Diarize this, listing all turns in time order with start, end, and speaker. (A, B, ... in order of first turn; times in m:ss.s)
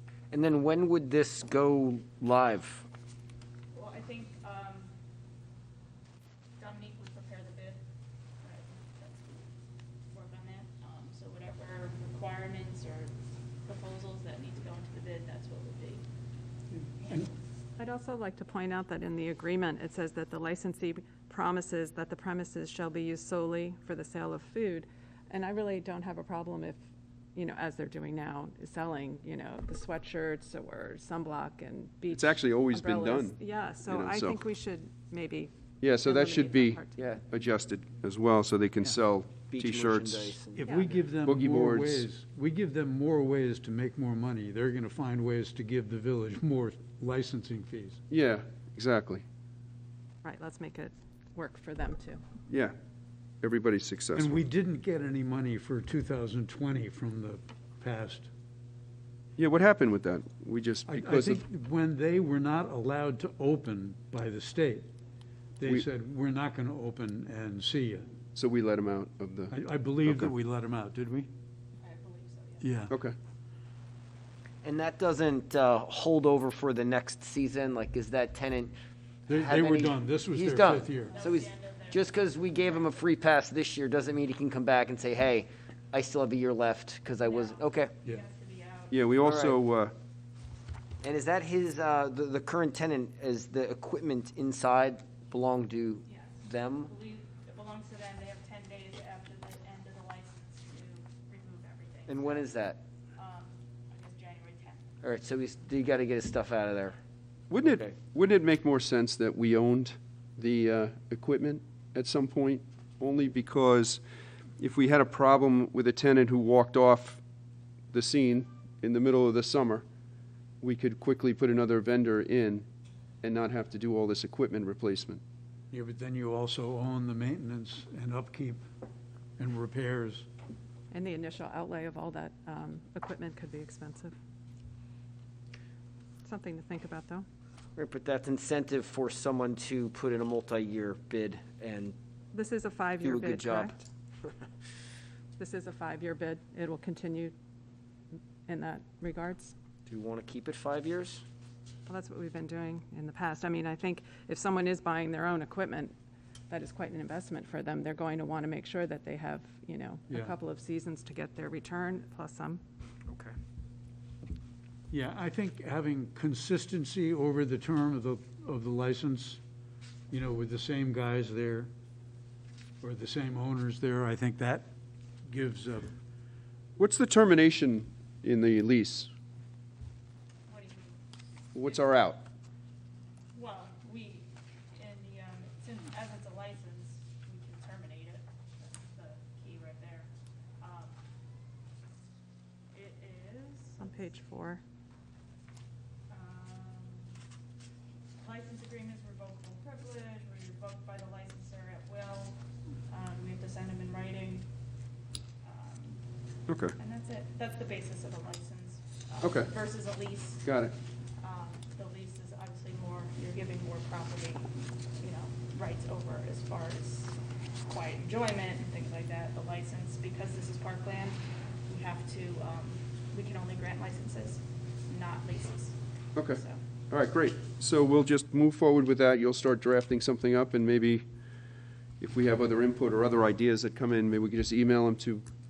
0:00.3-0:02.8 A
0:03.7-0:04.9 B
0:06.6-0:07.8 B
0:08.4-0:09.5 B
0:10.1-0:13.1 B
0:13.6-0:16.0 B
0:17.0-0:17.3 B
0:17.8-0:26.8 C
0:27.3-0:37.1 C
0:32.1-0:34.4 D
0:35.8-0:40.4 D
0:39.5-0:41.0 A
0:40.6-0:48.0 E
0:41.2-0:42.0 D
0:48.1-0:49.2 D
0:50.2-0:52.2 C
0:52.5-0:52.7 D
0:53.4-0:54.4 D
0:54.1-0:58.3 E
0:59.4-1:01.4 D
1:00.9-1:04.9 E
1:05.6-1:08.1 E
1:08.3-1:10.3 D
1:09.5-1:11.3 E
1:11.8-1:12.7 B
1:12.6-1:12.9 E
1:14.6-1:18.7 A
1:19.3-1:21.1 E
1:19.3-1:27.9 A
1:21.0-1:23.0 B
1:27.2-1:29.0 B
1:28.9-1:29.9 D
1:29.2-1:29.6 A
1:31.0-1:36.9 A
1:36.1-1:42.5 B
1:42.1-1:42.8 A
1:43.2-1:44.9 B
1:45.0-1:47.0 A
1:47.5-1:54.0 D
1:47.6-1:47.9 A
1:54.6-1:57.2 D
1:57.9-1:59.8 D
2:00.6-2:02.6 D
2:03.2-2:05.2 D
2:05.7-2:08.6 E
2:09.4-2:10.3 E
2:10.9-2:14.1 C
2:16.2-2:17.2 C
2:17.8-2:21.9 A
2:22.3-2:23.7 C
2:23.0-2:23.8 A
2:25.4-2:27.3 C
2:28.5-2:29.5 C
2:29.9-2:31.2 A
2:31.9-2:35.9 C
2:36.5-2:42.6 C
2:40.1-2:40.3 E
2:44.9-2:49.4 E
2:50.1-2:51.7 E
2:52.8-2:54.7 E
2:55.2-2:55.9 E
2:56.8-2:59.1 D
3:00.5-3:01.0 B
3:01.5-3:02.2 D
3:03.3-3:10.1 B
3:10.6-3:11.0 B
3:12.7-3:13.9 B
3:13.8-3:14.6 C
3:16.1-3:17.2 B
3:18.2-3:22.4 B
3:22.9-3:24.5 B
3:25.4-3:26.0 B
3:26.5-3:26.7 D
3:26.8-3:30.5 B
3:29.2-3:29.5 D
3:30.4-3:30.7 D
3:31.2-3:46.6 B
3:46.9-3:51.0 D
3:52.0-3:55.2 D